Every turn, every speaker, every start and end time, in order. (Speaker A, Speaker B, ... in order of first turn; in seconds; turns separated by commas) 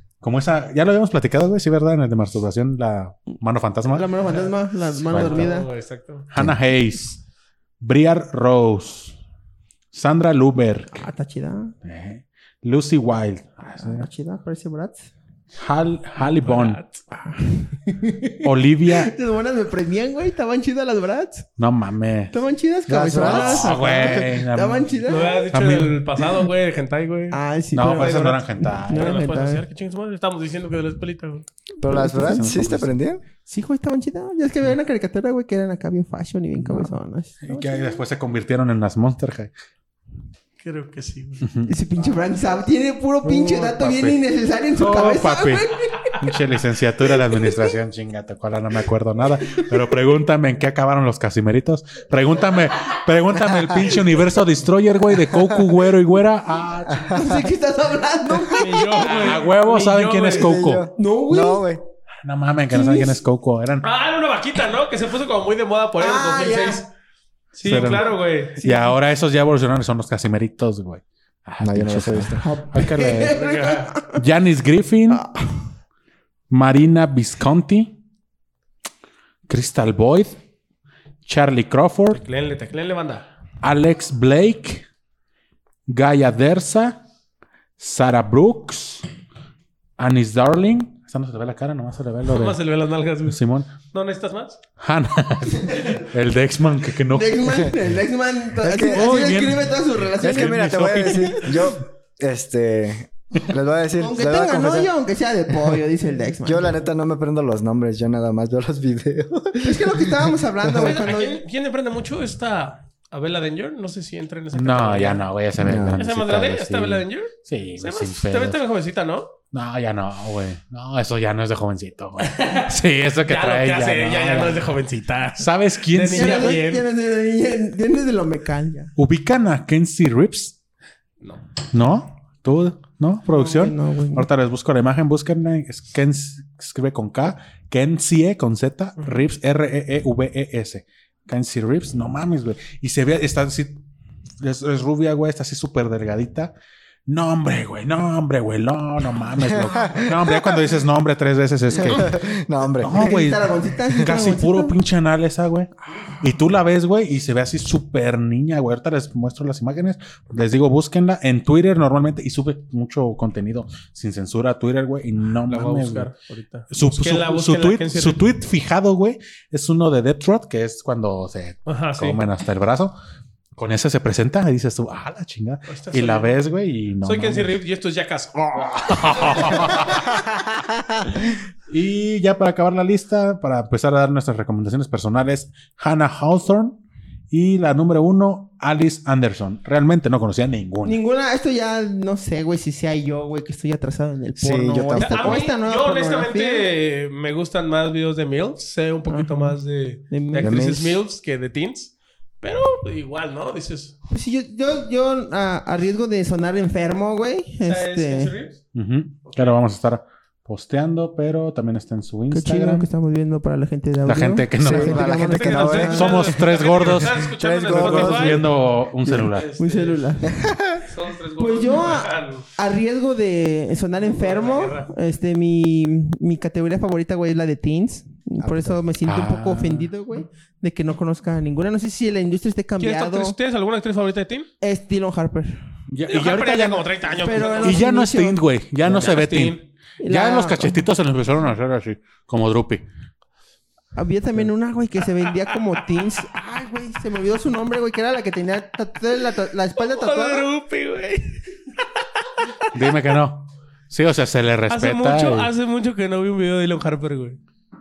Speaker A: 0.2-4.1, Speaker B: 3.9-5.7, Speaker C: 4.2-4.5, Speaker A: 5.0-5.5, Speaker C: 5.1-6.3, Speaker A: 6.3-7.2, Speaker A: 7.8-9.2, Speaker A: 9.9-11.1, Speaker B: 11.0-11.7, Speaker A: 11.8-14.1, Speaker B: 13.8-15.1, Speaker A: 15.6-16.8, Speaker C: 16.3-17.0, Speaker B: 17.1-21.5, Speaker A: 18.4-19.1, Speaker A: 21.6-22.3, Speaker B: 22.3-25.5, Speaker D: 22.9-24.3, Speaker A: 23.2-26.0, Speaker C: 25.1-27.4, Speaker B: 27.3-29.6, Speaker A: 27.7-29.2, Speaker C: 28.9-31.5, Speaker D: 31.8-33.2, Speaker B: 31.8-32.5, Speaker A: 32.1-32.9, Speaker B: 33.5-38.0, Speaker A: 37.4-39.5, Speaker C: 40.6-41.5, Speaker A: 41.4-41.7, Speaker B: 41.6-46.2, Speaker A: 43.2-44.2, Speaker A: 44.8-57.1, Speaker B: 47.3-47.6, Speaker D: 53.3-54.1, Speaker D: 55.1-55.8, Speaker D: 56.9-57.5, Speaker B: 57.1-59.4, Speaker C: 58.5-60.6, Speaker A: 59.0-60.8, Speaker D: 60.3-61.8, Speaker B: 61.0-61.7, Speaker A: 62.2-63.9, Speaker B: 62.7-63.2, Speaker C: 63.8-66.9, Speaker B: 66.0-66.8, Speaker C: 67.5-68.6, Speaker A: 67.6-73.4, Speaker B: 68.6-68.9, Speaker D: 71.6-72.4, Speaker B: 72.4-74.2, Speaker C: 73.3-73.9, Speaker A: 74.0-75.2, Speaker B: 75.1-75.7, Speaker A: 76.5-78.0, Speaker A: 79.5-80.4, Speaker A: 81.2-82.2, Speaker C: 82.1-83.3, Speaker A: 83.6-84.8, Speaker A: 85.9-87.0, Speaker A: 87.8-89.1, Speaker A: 90.0-92.6, Speaker C: 92.2-94.6, Speaker A: 93.2-93.7, Speaker A: 94.8-97.7, Speaker B: 97.1-101.5, Speaker D: 98.6-99.3, Speaker A: 98.9-101.7, Speaker D: 100.2-104.9, Speaker B: 104.0-106.8, Speaker D: 106.4-111.0, Speaker B: 109.6-111.4, Speaker C: 110.8-115.2, Speaker A: 114.5-118.6, Speaker D: 115.6-116.0, Speaker C: 115.9-119.3, Speaker A: 119.5-124.7, Speaker C: 122.2-126.8, Speaker A: 125.4-126.6, Speaker B: 126.1-128.9, Speaker A: 128.9-130.6, Speaker A: 131.7-143.8, Speaker B: 133.3-134.3, Speaker A: 144.4-146.5, Speaker A: 147.1-152.2, Speaker D: 149.4-150.3, Speaker D: 151.7-153.2, Speaker A: 152.8-166.1, Speaker B: 152.9-154.8, Speaker C: 165.4-168.2, Speaker A: 166.7-172.9, Speaker C: 171.7-172.2, Speaker A: 173.5-177.5, Speaker C: 175.7-176.4, Speaker C: 177.0-180.1, Speaker A: 178.6-180.2, Speaker A: 181.7-191.0, Speaker B: 190.8-196.7, Speaker D: 194.4-195.4, Speaker C: 194.9-203.9, Speaker B: 199.1-199.6, Speaker B: 200.1-200.6, Speaker D: 200.4-201.0, Speaker B: 204.1-208.3, Speaker C: 207.6-208.6, Speaker A: 208.7-212.9, Speaker C: 209.2-209.6, Speaker B: 212.3-216.2, Speaker A: 214.1-219.5, Speaker D: 214.6-218.4, Speaker C: 215.3-218.5, Speaker C: 219.3-220.1, Speaker B: 219.6-220.4, Speaker D: 220.2-220.8, Speaker C: 220.8-222.4, Speaker B: 221.4-233.3, Speaker C: 224.1-224.9, Speaker D: 228.4-228.8, Speaker A: 229.0-229.9, Speaker C: 232.8-234.5, Speaker B: 234.6-235.6, Speaker A: 235.9-236.9, Speaker C: 236.1-237.9, Speaker B: 237.2-238.4, Speaker A: 237.4-242.8, Speaker D: 238.8-239.1, Speaker C: 238.9-239.6, Speaker B: 240.0-240.8, Speaker B: 243.9-250.5, Speaker C: 249.8-252.7, Speaker A: 252.7-255.5, Speaker C: 254.7-257.4